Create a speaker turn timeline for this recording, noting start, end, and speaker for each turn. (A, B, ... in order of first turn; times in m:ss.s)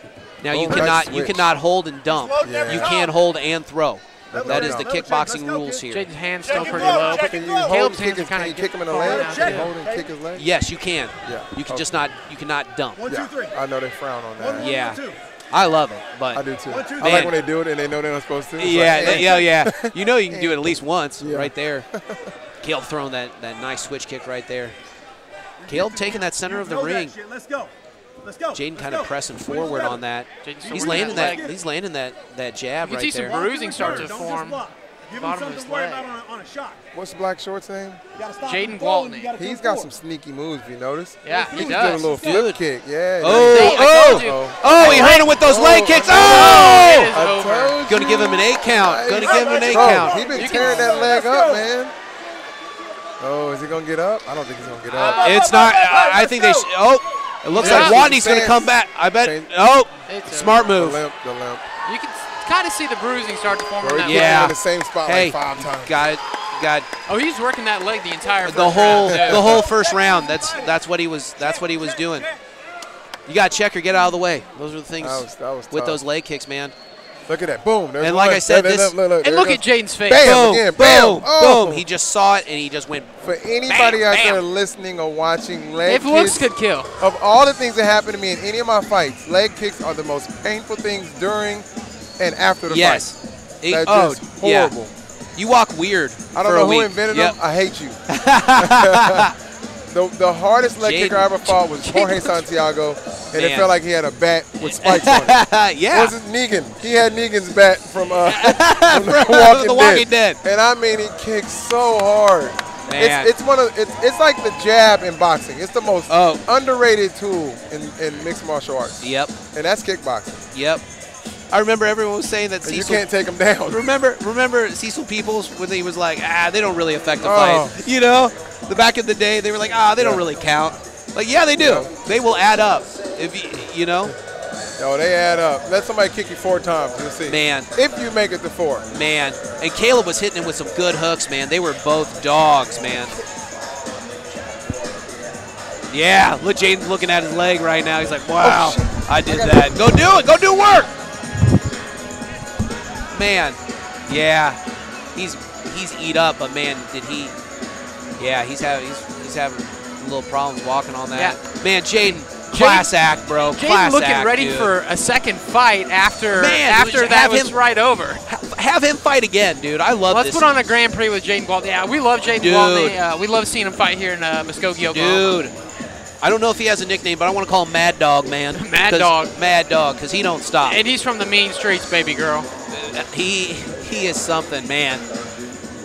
0:00.4-0:06.1 A
0:00.5-0:01.4 B
0:02.1-0:03.2 C
0:02.4-0:03.0 B
0:04.3-0:04.9 B
0:04.3-0:05.9 C
0:05.9-0:09.7 D
0:06.4-0:07.8 C
0:06.6-0:10.5 B
0:08.9-0:10.1 C
0:10.3-0:13.1 A
0:11.2-0:12.0 B
0:13.0-0:13.6 C
0:13.1-0:14.7 B
0:14.4-0:15.2 C
0:14.6-0:16.5 A
0:16.3-0:20.6 B
0:16.7-0:17.3 C
0:17.0-0:17.3 A
0:18.6-0:21.9 A
0:21.2-0:22.3 B
0:22.6-0:24.8 A
0:25.6-0:27.7 C
0:25.7-0:27.2 A
0:28.2-0:30.0 C
0:28.5-0:34.2 A
0:30.4-0:31.5 D
0:30.7-0:31.6 C
0:32.8-0:36.1 D
0:33.2-0:36.8 C
0:36.9-0:38.0 B
0:38.2-0:39.9 C
0:38.4-0:39.3 D
0:39.4-0:51.9 B
0:41.2-0:42.2 D
0:41.3-0:42.4 C
0:42.1-0:42.6 A
0:43.2-0:47.1 A
0:43.5-0:45.3 D
0:45.0-0:45.2 C
0:46.1-0:47.9 D
0:47.8-0:50.3 A
0:49.1-0:51.7 C
0:50.3-0:51.2 D
0:53.2-0:55.4 B
0:54.9-0:55.3 D
0:55.0-0:56.7 C
0:55.1-1:01.0 A
0:57.5-0:59.4 B
0:57.6-0:58.1 D
0:57.6-0:57.9 C
1:00.1-1:00.7 D
1:00.7-1:01.6 B
1:01.8-1:04.6 D
1:03.8-1:06.0 B
1:04.1-1:06.9 A
1:07.1-1:09.6 D
1:08.4-1:12.3 A
1:09.0-1:09.7 B
1:09.4-1:10.8 C
1:11.4-1:12.4 C
1:13.3-1:16.8 A
1:15.0-1:16.0 B
1:17.3-1:21.8 B
1:18.0-1:19.0 A
1:19.2-1:20.3 D
1:20.2-1:24.4 A
1:23.2-1:26.5 B
1:25.9-1:26.9 D
1:27.0-1:31.7 B
1:32.2-1:33.1 B
1:32.7-1:34.8 A
1:33.7-1:34.9 B
1:35.4-1:37.4 A
1:36.3-1:38.0 B
1:38.1-1:39.3 A
1:38.6-1:39.3 B
1:39.9-1:45.4 B
1:40.8-1:42.4 A
1:43.4-1:43.7 A
1:44.6-1:46.2 A
1:45.9-2:00.4 B
1:48.3-1:50.4 A
1:52.9-1:53.3 A
1:56.1-1:56.4 A
1:59.0-1:59.4 A
2:00.5-2:00.8 A
2:01.5-2:03.1 A
2:02.6-2:03.8 B
2:03.7-2:14.2 A
2:07.2-2:07.8 B
2:10.0-2:10.2 B
2:11.6-2:11.9 B
2:14.8-2:18.9 B
2:17.3-2:17.7 A
2:18.9-2:23.2 A
2:25.9-2:30.9 A
2:28.4-2:29.8 B
2:33.1-2:34.6 A
2:35.1-2:37.4 A
2:38.2-2:44.8 A
2:41.1-2:41.4 D
2:42.0-2:48.2 D
2:46.3-2:47.6 A
2:48.3-2:50.5 A
2:50.1-2:55.4 D
2:52.4-2:53.0 A
2:54.9-2:55.5 A
2:56.2-3:00.8 A
2:58.5-2:59.3 D
3:00.6-3:02.5 D
3:02.7-3:05.1 A